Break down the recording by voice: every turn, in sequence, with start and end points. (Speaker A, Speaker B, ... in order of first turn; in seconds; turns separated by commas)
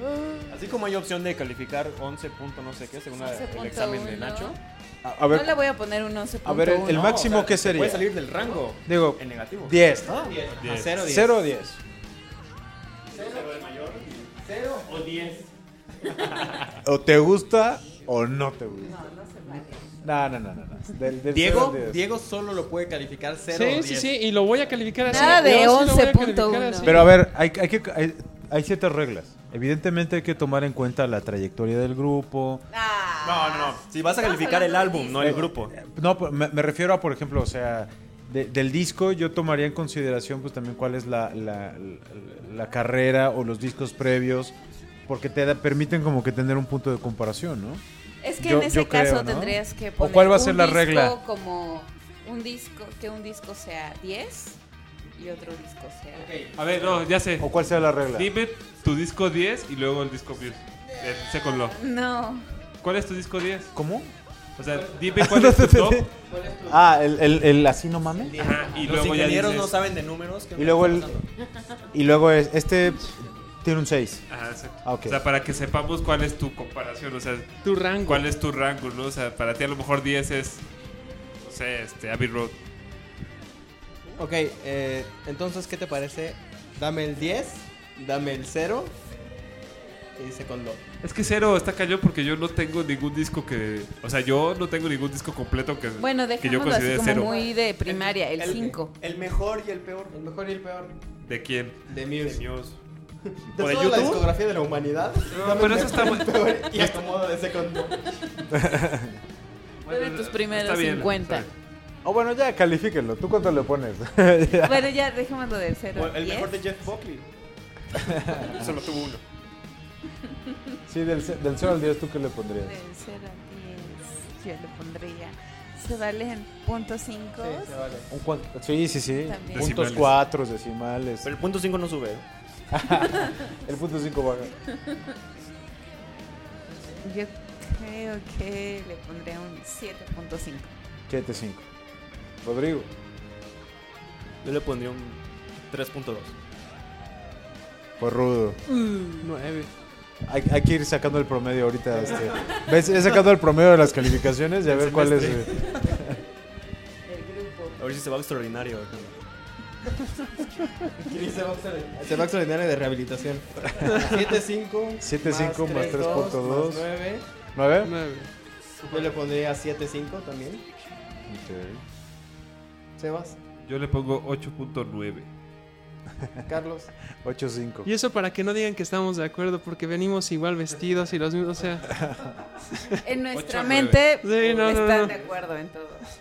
Speaker A: 0.5-4.6, Speaker B: 3.1-4.6, Speaker C: 5.0-5.6, Speaker B: 5.3-7.2, Speaker C: 6.4-8.1, Speaker A: 6.9-9.8, Speaker C: 8.9-11.8, Speaker D: 10.0-11.4, Speaker E: 10.6-11.0, Speaker A: 13.1-14.3, Speaker D: 13.1-13.6, Speaker D: 14.4-15.5, Speaker C: 16.8-19.0, Speaker B: 18.9-20.0, Speaker C: 20.0-22.1, Speaker D: 21.3-25.2, Speaker F: 23.5-27.1, Speaker B: 25.0-27.0, Speaker C: 26.8-32.7, Speaker B: 32.7-35.4, Speaker A: 33.2-35.7, Speaker C: 35.2-44.5, Speaker C: 45.1-47.8, Speaker B: 48.2-54.6, Speaker C: 48.4-51.2, Speaker B: 55.2-56.3, Speaker D: 56.1-57.0, Speaker E: 56.6-57.5, Speaker C: 57.4-58.3, Speaker E: 58.1-61.8, Speaker B: 61.7-62.5, Speaker E: 62.8-63.7, Speaker C: 63.7-64.1, Speaker E: 64.6-66.1, Speaker C: 65.2-66.1, Speaker D: 66.3-66.9, Speaker C: 66.7-68.5, Speaker D: 68.2-69.3, Speaker E: 68.4-69.9, Speaker A: 68.8-71.2, Speaker C: 70.6-71.1, Speaker D: 70.9-71.2, Speaker C: 71.9-74.3, Speaker E: 74.3-80.7, Speaker C: 74.8-75.2, Speaker F: 77.6-78.3, Speaker E: 81.4-82.6, Speaker D: 84.2-89.0, Speaker D: 90.2-90.8, Speaker E: 91.0-97.3, Speaker B: 96.0-99.0, Speaker D: 97.1-97.6, Speaker A: 97.8-100.2, Speaker D: 98.5-98.8, Speaker D: 100.1-101.0, Speaker E: 101.2-101.9, Speaker D: 101.9-102.5, Speaker A: 102.1-102.8, Speaker D: 103.4-108.3, Speaker A: 103.6-104.3, Speaker E: 105.3-106.9, Speaker C: 108.5-109.2, Speaker E: 109.9-111.5, Speaker B: 109.9-111.5, Speaker C: 112.0-114.9, Speaker B: 114.5-116.6, Speaker A: 115.9-117.3, Speaker C: 118.0-118.7, Speaker A: 118.4-119.2, Speaker C: 120.9-122.8, Speaker B: 122.6-127.7, Speaker D: 127.4-128.1, Speaker C: 128.1-131.3, Speaker B: 129.2-129.9, Speaker E: 129.5-130.2, Speaker A: 131.2-132.2, Speaker C: 132.7-134.6, Speaker B: 132.9-133.4, Speaker B: 137.0-140.7, Speaker C: 141.1-141.7, Speaker C: 142.4-142.9, Speaker A: 144.4-146.3, Speaker C: 148.0-148.6, Speaker F: 148.7-149.7, Speaker C: 150.3-156.2, Speaker D: 151.9-152.6, Speaker B: 157.1-157.8, Speaker A: 157.8-159.2, Speaker D: 160.9-167.2, Speaker C: 165.0-166.9, Speaker B: 165.8-166.3, Speaker C: 167.6-167.9, Speaker F: 167.8-168.3, Speaker A: 168.9-169.1, Speaker D: 168.9-170.6, Speaker C: 171.3-171.8, Speaker D: 173.0-173.4, Speaker E: 173.6-175.3, Speaker D: 176.4-176.9, Speaker C: 177.2-177.9, Speaker F: 177.8-182.0, Speaker C: 181.9-182.3, Speaker B: 183.1-186.1, Speaker E: 183.3-184.1, Speaker F: 184.2-185.2